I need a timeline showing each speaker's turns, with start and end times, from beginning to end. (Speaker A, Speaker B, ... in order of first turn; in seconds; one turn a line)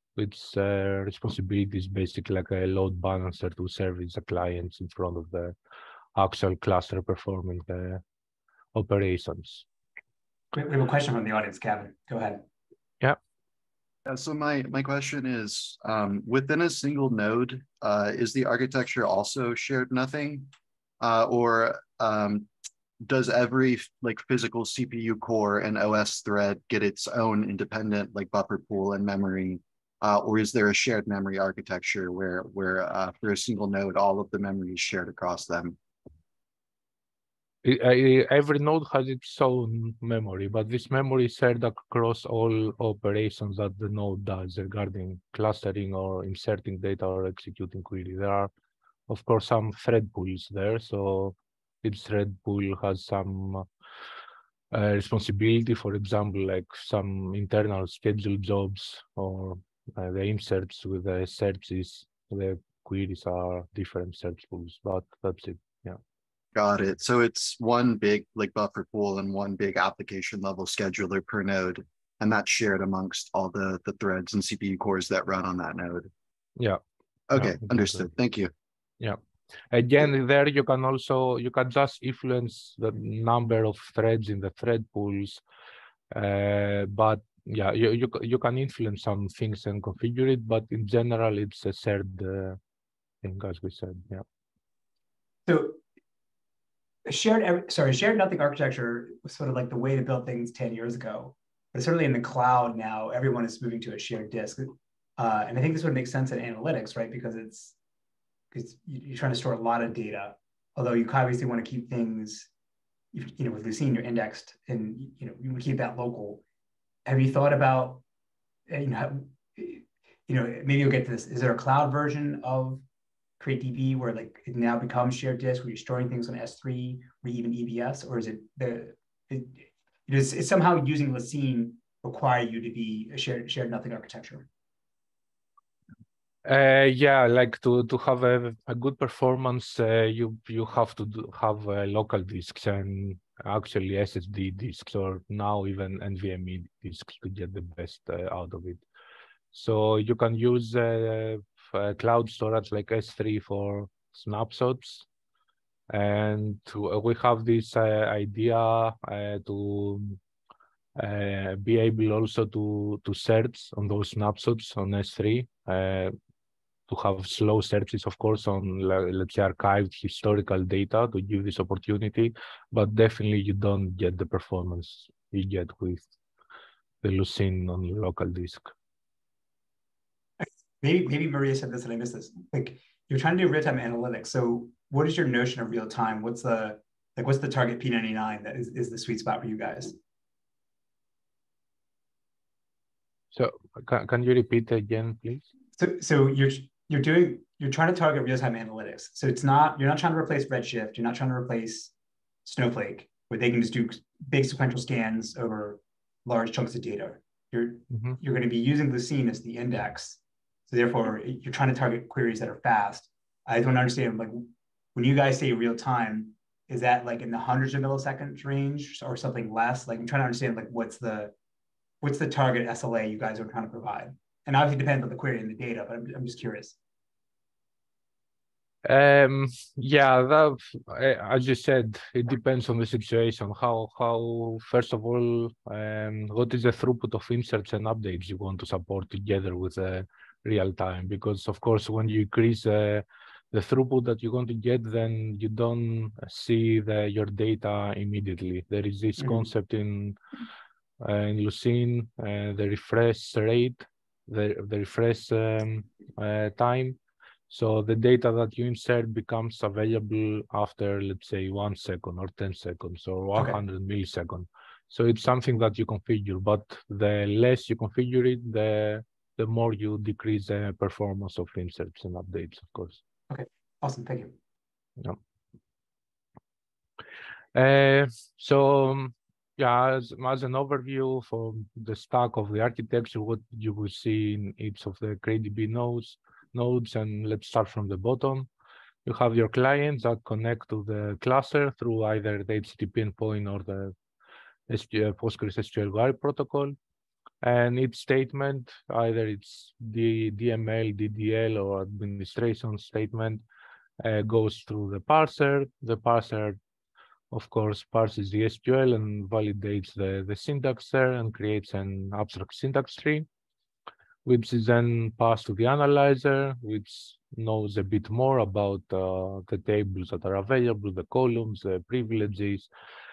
Speaker A: 0.1-5.5
Speaker A: 6.1-8.0
Speaker A: 8.7-9.6
Speaker B: 10.5-12.4
Speaker C: 14.1-22.5
Speaker C: 23.0-35.8
Speaker A: 37.6-48.5
Speaker A: 49.1-53.6
Speaker A: 54.7-66.0
Speaker C: 66.5-76.1
Speaker C: 77.3-78.5
Speaker A: 77.3-78.0
Speaker A: 79.7-85.4
Speaker A: 86.1-92.6
Speaker A: 93.2-94.2
Speaker B: 95.5-95.8
Speaker B: 97.1-107.7
Speaker B: 108.5-112.5
Speaker B: 113.1-116.4
Speaker B: 117.0-118.0
Speaker B: 118.7-122.8
Speaker B: 123.4-134.5
Speaker A: 136.4-148.8
Speaker A: 149.5-155.1
Speaker A: 155.9-160.2
Speaker A: 161.0-166.1
Speaker A: 166.9-176.1
Speaker A: 177.0-178.7
Speaker B: 180.4-190.0
Speaker A: 193.3-195.4
Speaker B: 195.8-201.9
Speaker B: 202.4-221.3
Speaker B: 222.0-226.8
Speaker A: 228.8-250.2
Speaker A: 251.0-257.0
Speaker A: 257.5-273.0
Speaker B: 273.3-274.3
Speaker A: 277.5-288.5
Speaker A: 289.1-293.9
Speaker A: 294.7-296.8
Speaker A: 297.4-303.4
Speaker A: 304.0-306.6
Speaker A: 307.3-313.3
Speaker A: 314.2-322.7